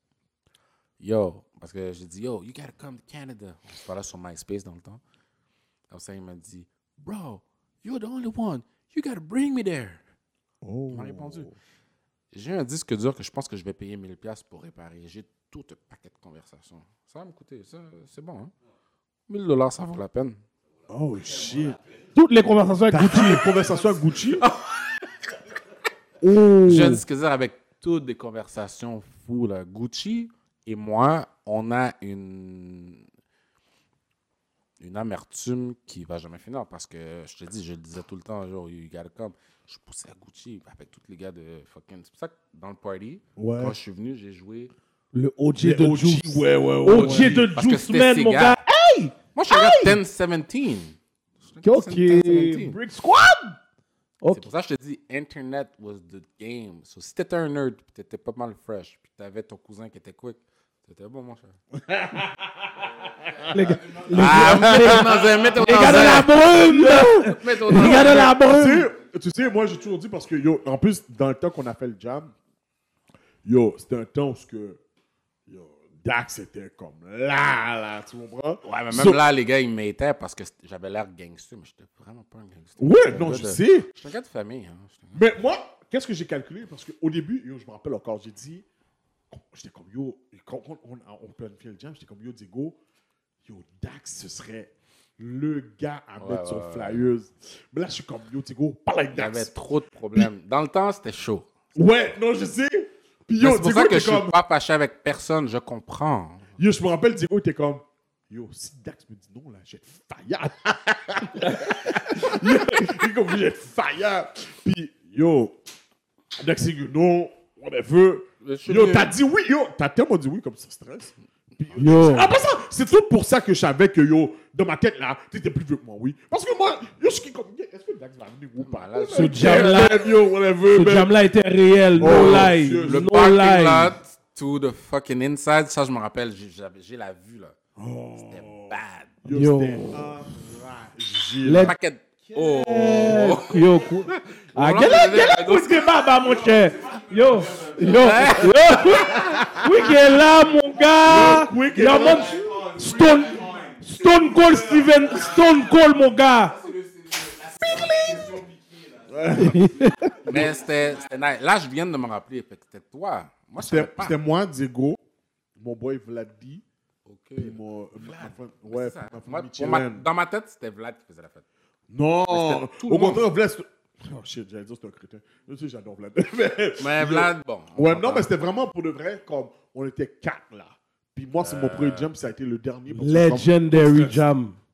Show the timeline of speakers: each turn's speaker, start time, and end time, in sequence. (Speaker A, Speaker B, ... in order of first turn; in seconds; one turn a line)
Speaker A: 1.0-5.0
Speaker A: 5.9-10.0
Speaker B: 10.6-11.5
Speaker A: 10.9-11.6
Speaker A: 12.3-18.5
Speaker A: 19.3-20.4
Speaker B: 20.9-21.8
Speaker C: 22.1-23.4
Speaker B: 22.9-24.4
Speaker A: 24.4-24.7
Speaker B: 26.2-27.0
Speaker A: 26.6-33.1
Speaker A: 34.8-44.7
Speaker B: 43.4-43.8
Speaker C: 45.1-50.0
Speaker B: 45.6-47.5
Speaker A: 46.9-48.6
Speaker A: 49.4-52.8
Speaker C: 51.6-53.6
Speaker C: 54.2-54.5
Speaker A: 54.3-61.6
Speaker B: 61.9-63.5
Speaker C: 63.5-68.9
Speaker A: 64.1-68.4
Speaker B: 64.2-65.3
Speaker B: 67.7-72.3
Speaker B: 73.5-74.8
Speaker B: 75.5-79.2
Speaker A: 78.6-85.2
Speaker B: 82.8-83.9
Speaker B: 85.1-88.7
Speaker B: 89.3-92.8
Speaker B: 93.4-99.5
Speaker A: 96.2-97.1
Speaker A: 99.1-101.5
Speaker B: 101.8-104.4
Speaker A: 103.4-106.5
Speaker B: 106.6-115.6
Speaker B: 116.4-131.1
Speaker A: 118.4-119.1
Speaker C: 121.8-122.3
Speaker A: 128.6-130.0
Speaker C: 129.1-130.1
Speaker C: 130.7-134.0
Speaker B: 132.0-133.1
Speaker A: 132.0-137.6
Speaker B: 137.8-141.7
Speaker A: 138.2-139.2
Speaker C: 139.3-140.1
Speaker C: 141.4-141.7
Speaker A: 141.6-146.0
Speaker C: 142.6-156.6
Speaker B: 143.0-143.3
Speaker A: 147.8-149.5
Speaker B: 148.7-149.7
Speaker B: 151.0-152.7
Speaker A: 156.7-158.6
Speaker C: 157.5-158.4
Speaker B: 159.1-159.7
Speaker C: 159.3-160.2
Speaker A: 160.2-164.2
Speaker B: 160.3-160.5
Speaker B: 163.6-165.0
Speaker B: 165.6-166.6
Speaker A: 167.1-171.4
Speaker B: 167.4-170.1
Speaker B: 171.9-183.6
Speaker A: 172.3-173.2
Speaker A: 176.8-178.3
Speaker A: 181.4-182.1
Speaker C: 182.9-184.6
Speaker A: 183.7-184.2